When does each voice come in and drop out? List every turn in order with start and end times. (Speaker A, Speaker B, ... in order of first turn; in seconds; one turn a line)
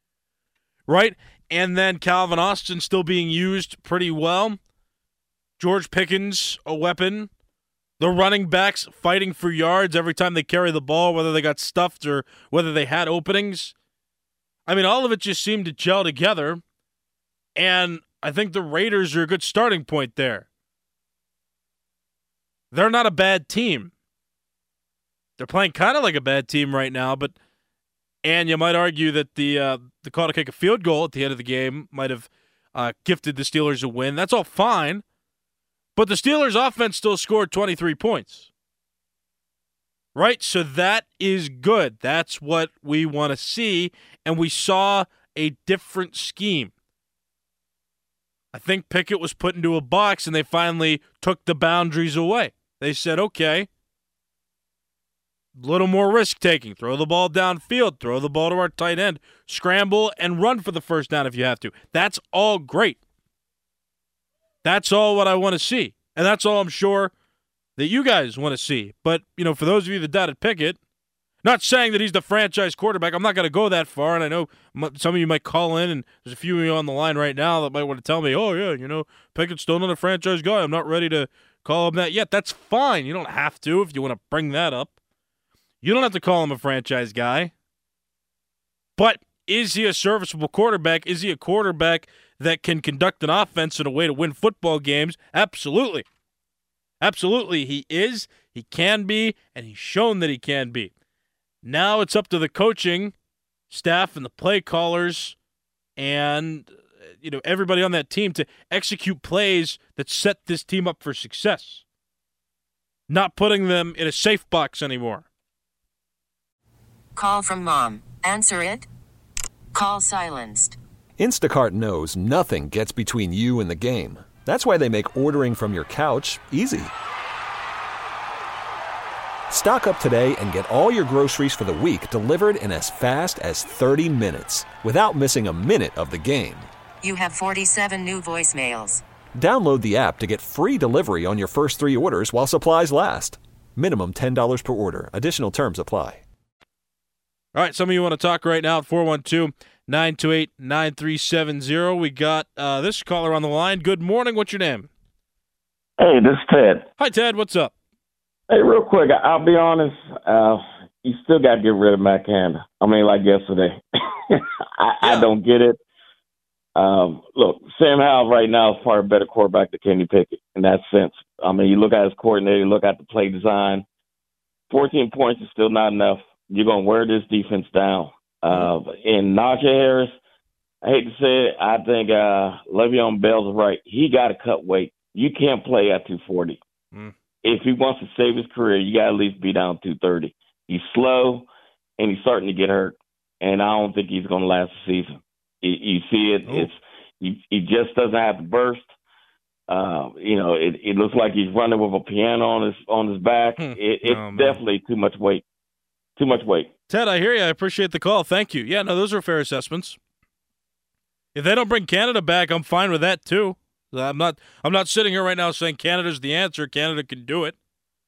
Speaker A: 0.9-4.6
Speaker A: 5.6-7.3
Speaker A: 8.0-13.7
Speaker A: 14.7-16.6
Speaker A: 17.6-20.5
Speaker A: 22.7-23.9
Speaker A: 25.4-27.4
Speaker A: 28.2-35.0
Speaker A: 36.0-38.5
Speaker A: 40.1-46.7
Speaker A: 48.5-53.7
Speaker A: 55.6-63.0
Speaker A: 64.6-67.1
Speaker A: 67.8-70.8
Speaker A: 71.4-84.9
Speaker A: 85.8-87.5
Speaker A: 89.0-96.1
Speaker A: 97.0-100.9
Speaker A: 101.6-103.1
Speaker A: 103.7-105.4
Speaker A: 106.0-111.8
Speaker A: 113.1-115.3
Speaker B: 117.2-118.9
Speaker B: 119.7-120.8
Speaker C: 121.2-126.9
Speaker C: 129.5-136.7
Speaker B: 137.0-139.0
Speaker C: 139.4-146.2
Speaker A: 147.5-154.9
Speaker D: 156.0-156.8
Speaker A: 157.0-157.7
Speaker D: 158.5-165.8
Speaker D: 166.8-173.8
Speaker D: 174.7-180.1
Speaker D: 180.8-186.6
Speaker D: 187.4-191.5
Speaker D: 192.0-198.9
Speaker D: 199.7-205.4
Speaker A: 203.6-204.6
Speaker D: 206.2-206.7
Speaker A: 206.9-210.0
Speaker A: 211.3-217.6